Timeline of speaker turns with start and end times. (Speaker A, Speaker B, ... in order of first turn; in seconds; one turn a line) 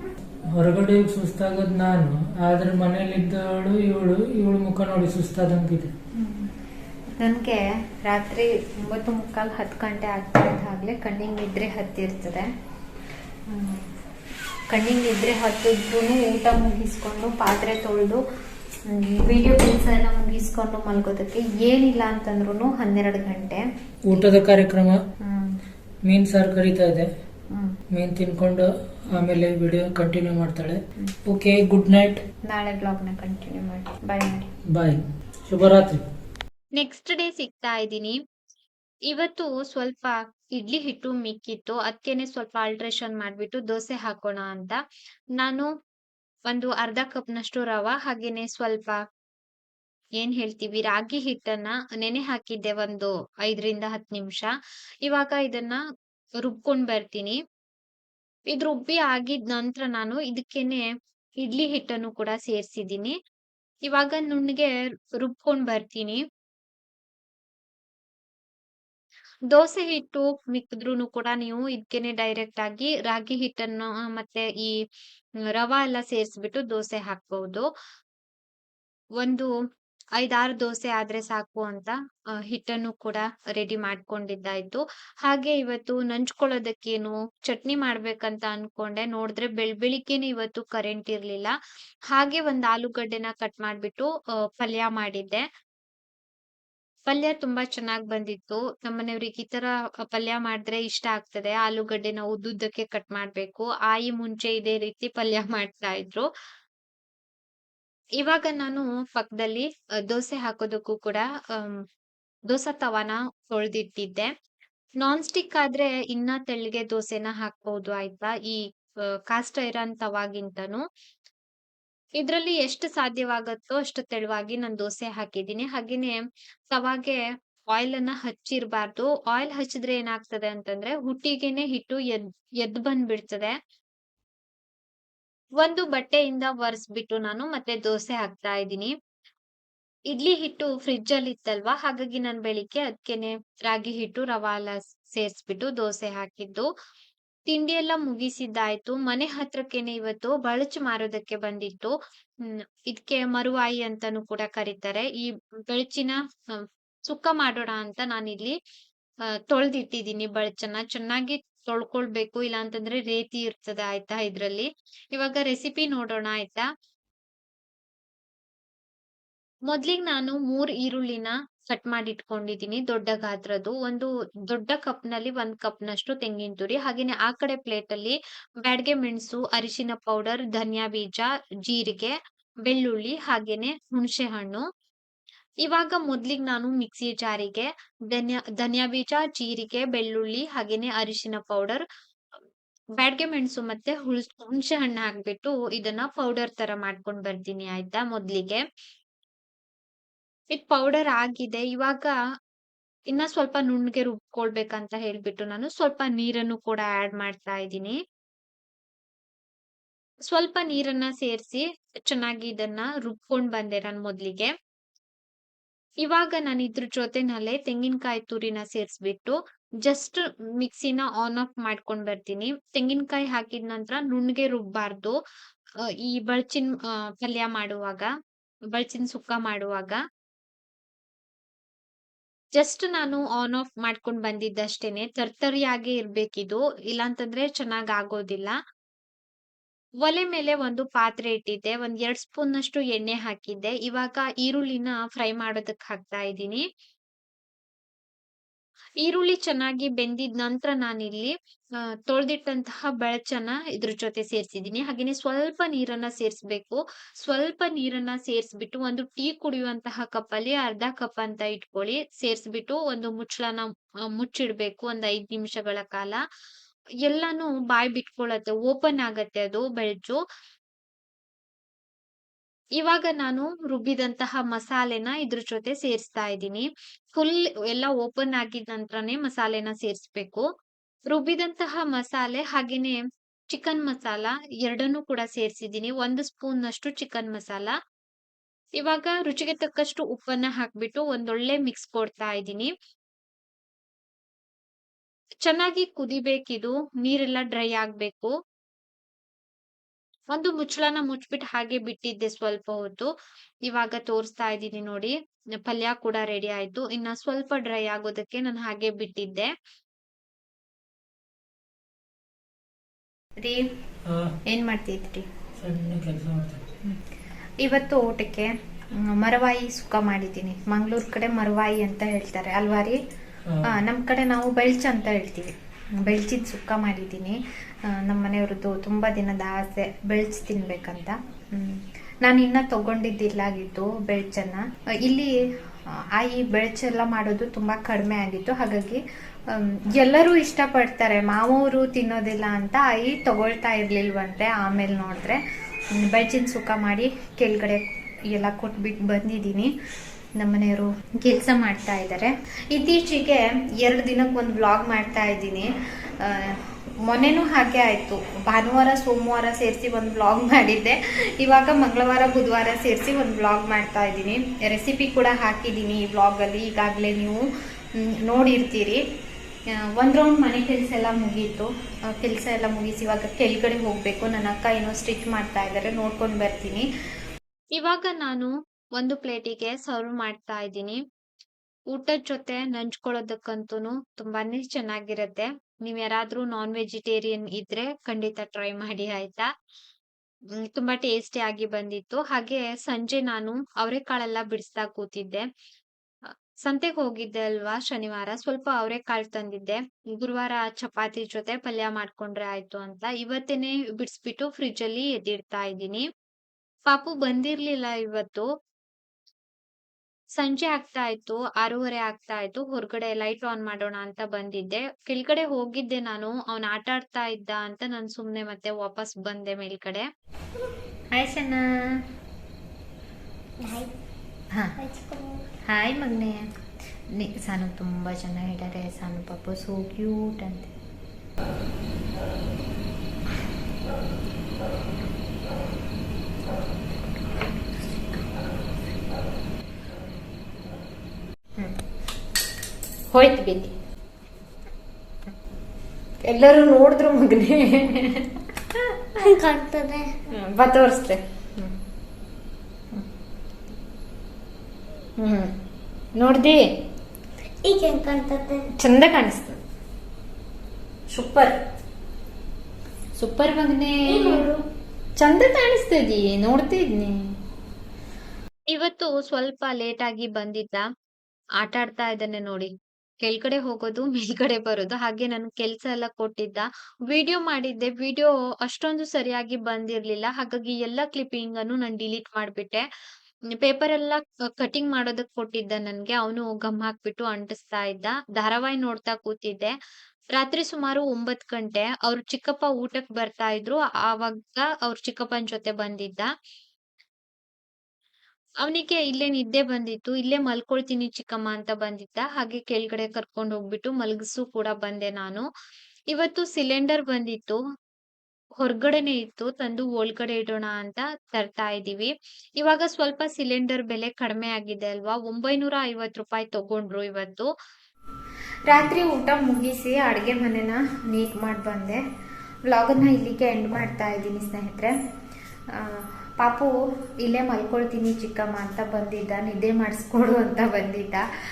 Speaker A: 0.5-5.9
Speaker B: 6.2-6.5
Speaker B: 7.2-12.5
Speaker B: 13.5-13.9
Speaker B: 14.7-18.2
Speaker B: 18.9-23.6
Speaker A: 24.1-25.0
Speaker B: 25.2-25.6
Speaker A: 26.1-27.1
Speaker A: 27.9-32.2
Speaker B: 32.5-34.5
Speaker A: 34.7-36.0
Speaker C: 36.8-38.2
Speaker C: 39.1-44.8
Speaker C: 45.4-45.7
Speaker C: 46.5-49.0
Speaker C: 50.2-54.5
Speaker C: 55.0-55.8
Speaker C: 56.4-57.4
Speaker C: 58.5-60.9
Speaker C: 61.4-63.1
Speaker C: 63.9-66.2
Speaker C: 69.5-74.8
Speaker C: 75.5-77.7
Speaker C: 79.2-79.5
Speaker C: 80.2-91.5
Speaker C: 92.1-95.4
Speaker C: 97.1-106.3
Speaker C: 108.2-111.8
Speaker C: 112.5-114.3
Speaker C: 115.0-118.6
Speaker C: 119.3-120.8
Speaker C: 122.2-127.2
Speaker C: 127.7-133.6
Speaker C: 135.6-138.9
Speaker C: 140.1-146.7
Speaker C: 147.5-151.9
Speaker C: 152.4-158.6
Speaker C: 159.5-166.7
Speaker C: 169.7-182.2
Speaker C: 182.7-184.7
Speaker C: 185.7-191.8
Speaker C: 193.0-198.6
Speaker C: 200.5-202.2
Speaker C: 203.1-208.0
Speaker C: 210.3-214.5
Speaker C: 216.0-225.2
Speaker C: 225.9-228.1
Speaker C: 228.7-230.0
Speaker C: 232.6-238.6
Speaker C: 240.0-246.7
Speaker C: 249.0-251.3
Speaker C: 252.1-266.2
Speaker C: 267.0-270.2
Speaker C: 272.8-280.5
Speaker C: 281.1-287.8
Speaker C: 288.8-292.7
Speaker C: 295.4-298.3
Speaker C: 300.3-303.1
Speaker C: 303.7-309.5
Speaker B: 313.4-313.6
Speaker A: 314.1-314.4
Speaker B: 314.5-315.2
Speaker A: 315.6-316.7
Speaker B: 317.6-323.0
Speaker A: 323.5-323.8
Speaker B: 323.7-335.3
Speaker B: 336.1-345.4
Speaker B: 345.9-349.7
Speaker B: 350.4-355.7
Speaker B: 356.2-367.4
Speaker B: 368.3-369.0
Speaker B: 370.0-376.9
Speaker C: 377.8-381.0
Speaker C: 381.9-389.5
Speaker C: 390.7-395.5
Speaker C: 396.3-406.1
Speaker C: 406.9-408.5
Speaker C: 410.4-420.1
Speaker B: 421.1-422.0
Speaker D: 423.6-423.9
Speaker D: 424.8-425.4
Speaker B: 425.7-426.4
Speaker B: 427.2-430.7
Speaker B: 443.1-443.7
Speaker B: 446.2-448.3
Speaker D: 449.2-450.1
Speaker B: 450.3-451.8
Speaker B: 455.2-455.5
Speaker B: 456.2-456.5
Speaker D: 457.6-458.7
Speaker B: 458.8-459.6
Speaker B: 461.1-461.5
Speaker C: 463.2-463.8
Speaker D: 464.1-464.6
Speaker B: 465.2-467.3
Speaker C: 468.7-470.9
Speaker C: 471.6-482.9
Speaker C: 483.6-489.7
Speaker C: 490.3-496.3
Speaker C: 498.6-505.5
Speaker C: 506.1-507.6
Speaker C: 508.6-517.5
Speaker B: 518.7-522.0
Speaker B: 522.7-524.9
Speaker B: 525.8-526.7
Speaker B: 527.2-531.2